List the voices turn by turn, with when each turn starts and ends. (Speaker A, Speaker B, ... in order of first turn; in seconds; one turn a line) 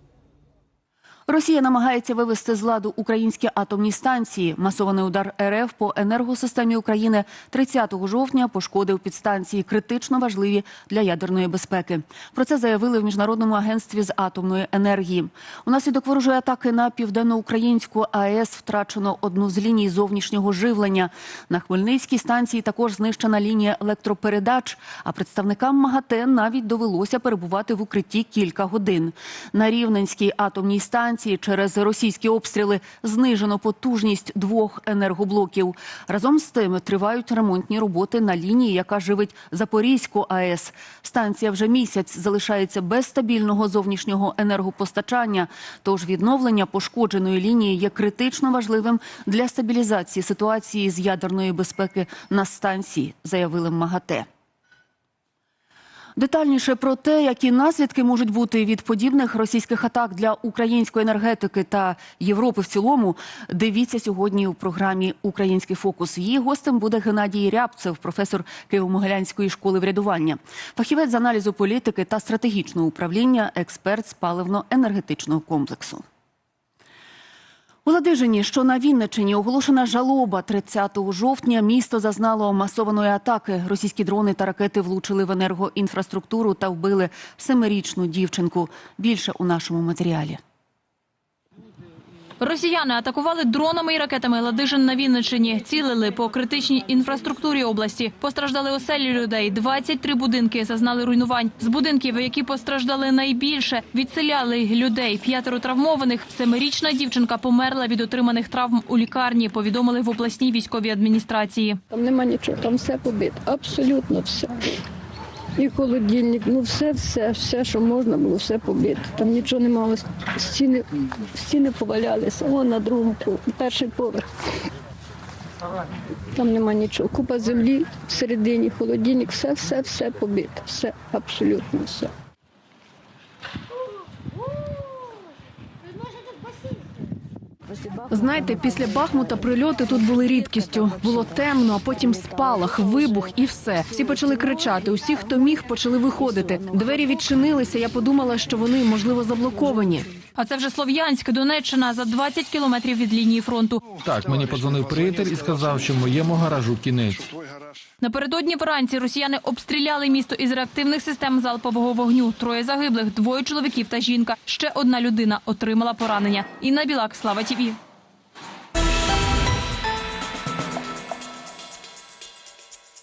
Speaker A: 1.3-54.2
Speaker A: 56.1-76.0
Speaker A: 77.8-90.4
Speaker B: 92.4-111.8
Speaker C: 111.9-114.5
Speaker C: 115.6-124.2
Speaker C: 126.3-132.1
Speaker D: 138.1-150.1
Speaker B: 150.3-153.8
Speaker E: 154.0-157.3
Speaker B: 158.0-167.8